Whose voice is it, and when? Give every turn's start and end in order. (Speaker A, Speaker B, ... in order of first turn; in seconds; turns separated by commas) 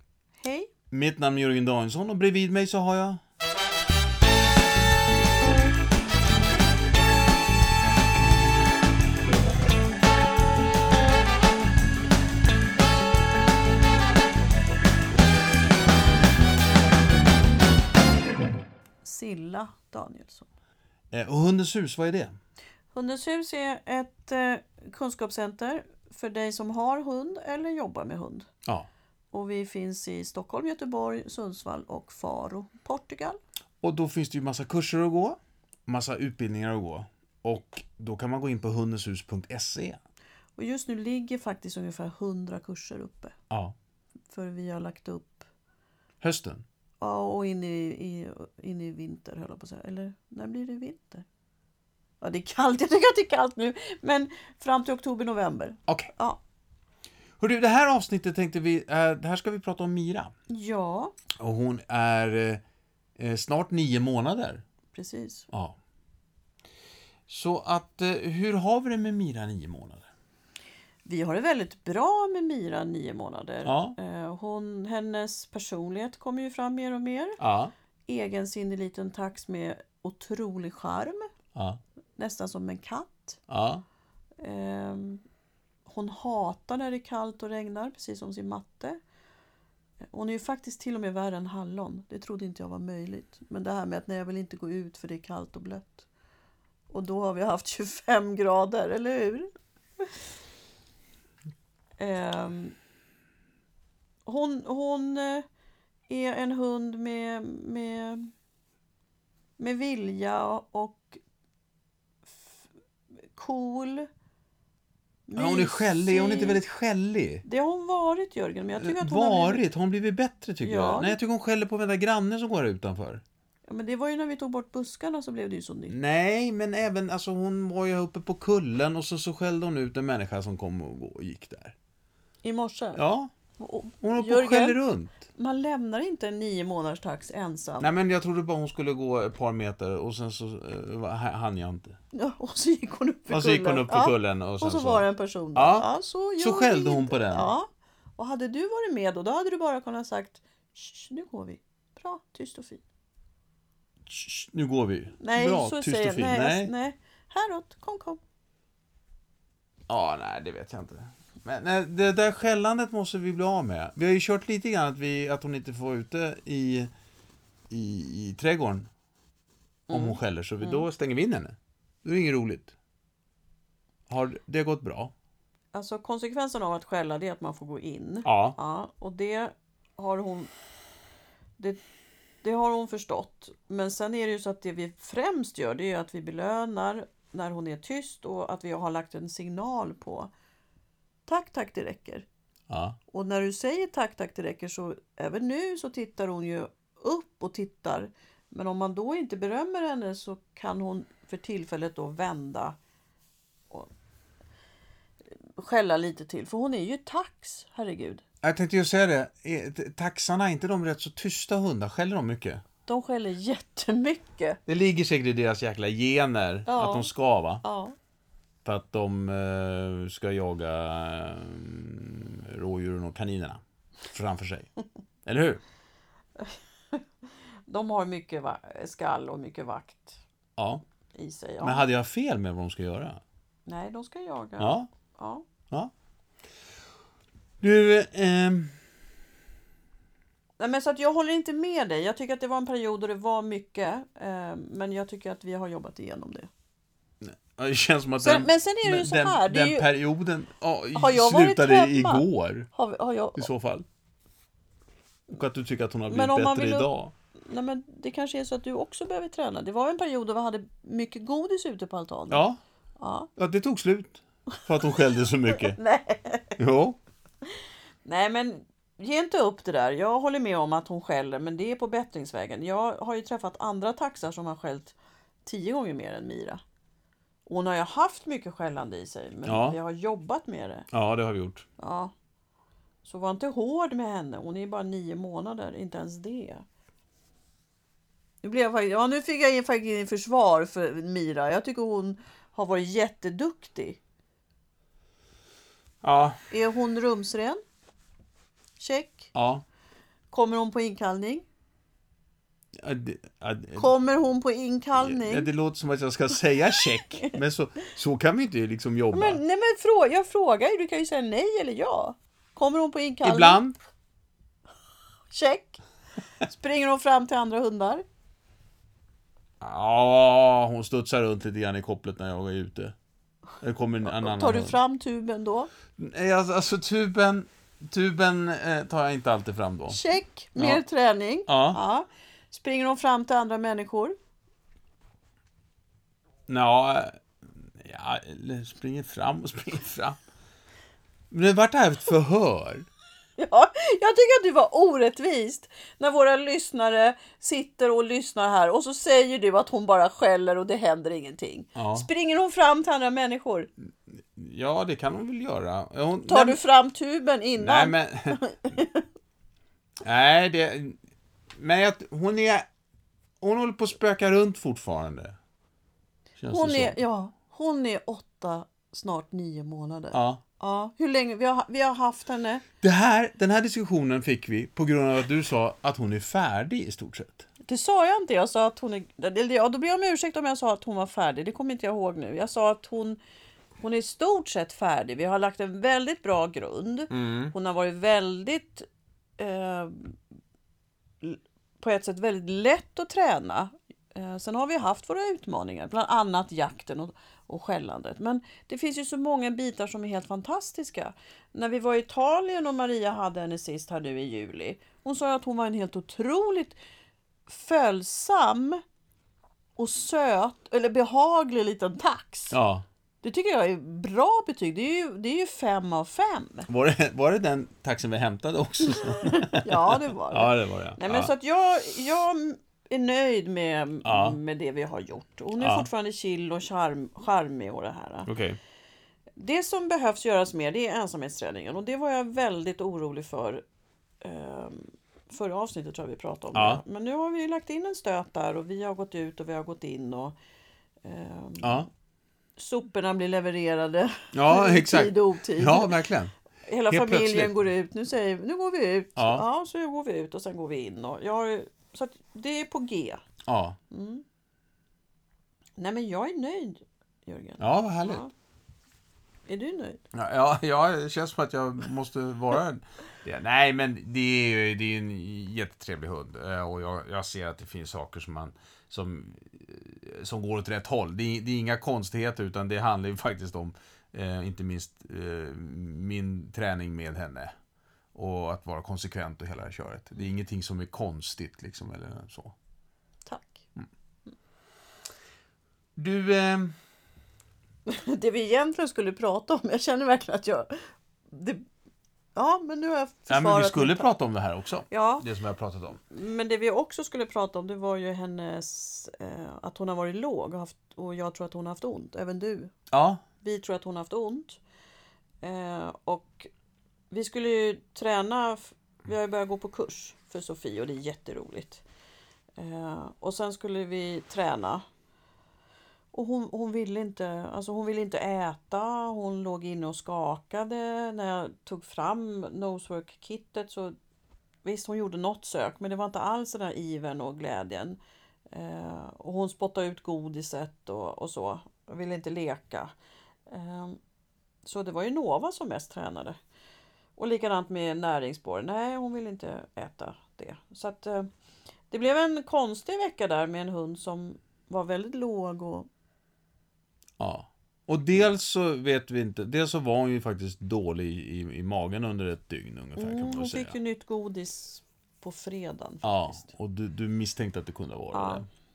Speaker A: 0.4-0.7, Speaker B: 0.9-3.2, Speaker A: 19.0-20.5, Speaker B: 21.1-22.4, Speaker A: 22.9-28.5, Speaker A: 29.3-33.4, Speaker B: 33.8-40.0, Speaker A: 40.6-43.3, Speaker A: 44.3-45.4, Speaker B: 46.2-46.6, Speaker A: 47.0-51.2, Speaker A: 52.2-56.4, Speaker B: 57.4-60.3, Speaker A: 60.5-61.1, Speaker B: 61.4-62.6, Speaker B: 63.2-64.6, Speaker A: 64.9-65.5, Speaker B: 65.5-65.8, Speaker B: 67.3-70.1, Speaker A: 71.0-77.4, Speaker B: 73.6-74.0, Speaker B: 77.4-77.7, Speaker A: 78.1-81.3, Speaker B: 81.5-81.8, Speaker A: 82.2-83.4, Speaker B: 83.5-83.8, Speaker A: 84.4-85.2, Speaker A: 85.8-89.0, Speaker A: 90.1-96.1, Speaker A: 96.9-99.5, Speaker A: 102.0-102.8, Speaker A: 104.2-105.4, Speaker A: 106.1-108.3, Speaker A: 109.6-111.2, Speaker A: 112.2-112.6, Speaker A: 113.3-114.1, Speaker A: 115.3-116.6, Speaker B: 115.3-117.4, Speaker A: 117.4-119.6, Speaker B: 118.8-123.2, Speaker A: 120.6-121.2, Speaker A: 123.7-125.9, Speaker B: 125.9-131.7, Speaker A: 132.4-133.0, Speaker B: 132.9-133.3, Speaker A: 133.6-134.8, Speaker B: 134.0-135.2, Speaker A: 135.3-137.9, Speaker B: 137.8-142.0, Speaker A: 142.1-147.7, Speaker B: 143.3-145.9, Speaker B: 146.4-147.5, Speaker A: 148.2-152.8, Speaker B: 154.1-156.7, Speaker A: 155.2-158.2, Speaker B: 159.9-166.9, Speaker B: 167.7-168.9, Speaker A: 169.9-170.8, Speaker B: 169.9-172.7, Speaker B: 174.1-175.1, Speaker A: 175.7-180.5, Speaker B: 178.2-178.6, Speaker A: 182.4-190.3, Speaker A: 191.3-192.2, Speaker B: 192.7-193.0, Speaker A: 193.1-202.8, Speaker A: 205.5-208.2, Speaker B: 208.4-212.6, Speaker A: 212.8-214.6, Speaker B: 214.7-217.6, Speaker A: 216.7-217.1, Speaker A: 217.6-217.9, Speaker B: 218.6-224.7, Speaker B: 225.2-225.6, Speaker A: 226.4-230.2, Speaker B: 230.6-230.8, Speaker A: 231.1-231.9, Speaker B: 231.6-233.2, Speaker A: 233.7-235.4, Speaker B: 234.6-234.9, Speaker B: 237.6-238.8, Speaker A: 240.6-246.5, Speaker B: 247.2-252.7, Speaker A: 248.2-249.9, Speaker A: 250.9-253.5, Speaker B: 253.4-253.8, Speaker B: 255.3-257.1, Speaker A: 256.1-262.4, Speaker B: 262.3-262.6, Speaker A: 263.0-263.3, Speaker B: 263.4-265.8, Speaker A: 265.5-266.6, Speaker B: 266.6-267.0, Speaker A: 267.4-276.6, Speaker A: 277.5-280.9, Speaker B: 279.4-279.8, Speaker B: 280.9-281.6, Speaker A: 281.8-282.1, Speaker A: 283.0-286.6, Speaker A: 288.4-294.0, Speaker B: 296.0-296.4, Speaker A: 296.5-297.6, Speaker A: 298.8-299.3, Speaker B: 299.3-299.6, Speaker A: 300.3-301.4, Speaker B: 302.8-303.9, Speaker A: 303.8-305.5, Speaker B: 305.0-309.4, Speaker A: 309.1-313.6, Speaker B: 313.2-313.8, Speaker A: 315.3-315.8, Speaker A: 316.4-318.0, Speaker B: 319.6-322.9, Speaker B: 323.6-324.8, Speaker A: 324.0-325.7, Speaker B: 325.9-330.0, Speaker A: 329.9-334.1, Speaker B: 330.6-330.8, Speaker B: 331.5-331.8, Speaker B: 336.5-337.2, Speaker B: 337.8-340.2, Speaker B: 341.3-342.9, Speaker A: 343.4-353.7, Speaker B: 351.7-352.1, Speaker B: 354.2-356.6, Speaker A: 356.3-359.0, Speaker B: 357.6-358.4, Speaker B: 360.0-361.0, Speaker B: 361.6-362.6, Speaker B: 363.4-365.4, Speaker B: 366.4-367.0, Speaker A: 366.5-372.6, Speaker B: 370.1-370.4, Speaker B: 372.8-377.5, Speaker A: 377.6-383.2, Speaker A: 383.8-388.9, Speaker B: 387.1-387.5, Speaker A: 389.4-390.2, Speaker A: 391.2-406.8, Speaker A: 407.5-408.8, Speaker A: 409.8-412.6, Speaker B: 412.5-412.8, Speaker A: 413.2-416.7, Speaker B: 416.7-421.3, Speaker A: 419.1-428.3, Speaker B: 424.0-424.4, Speaker B: 425.6-425.9, Speaker B: 428.2-428.6, Speaker A: 429.4-433.6, Speaker A: 434.2-440.3, Speaker B: 436.5-436.8, Speaker A: 441.0-441.8, Speaker B: 441.6-441.9, Speaker A: 442.6-446.0, Speaker B: 444.3-446.3, Speaker A: 446.6-453.2, Speaker B: 446.9-447.5, Speaker B: 449.1-449.4, Speaker B: 453.4-453.8, Speaker A: 453.9-454.2, Speaker A: 455.8-458.3, Speaker B: 457.6-458.2, Speaker A: 459.5-460.0, Speaker B: 460.1-477.5, Speaker B: 478.1-482.5, Speaker A: 483.2-483.6, Speaker B: 486.0-486.7, Speaker A: 487.9-491.6, Speaker A: 492.3-494.1, Speaker B: 493.3-496.0, Speaker A: 494.9-495.2, Speaker A: 496.1-502.7, Speaker B: 502.9-503.2, Speaker A: 503.4-504.6, Speaker A: 505.4-506.5, Speaker A: 507.1-511.8, Speaker A: 512.6-514.8, Speaker A: 516.1-523.9, Speaker A: 524.6-528.0, Speaker A: 528.5-532.9, Speaker A: 533.5-534.0, Speaker A: 534.6-536.4, Speaker A: 537.2-541.3, Speaker A: 541.9-545.9, Speaker B: 547.2-553.8, Speaker A: 553.0-556.5, Speaker B: 556.0-558.5, Speaker A: 558.1-558.4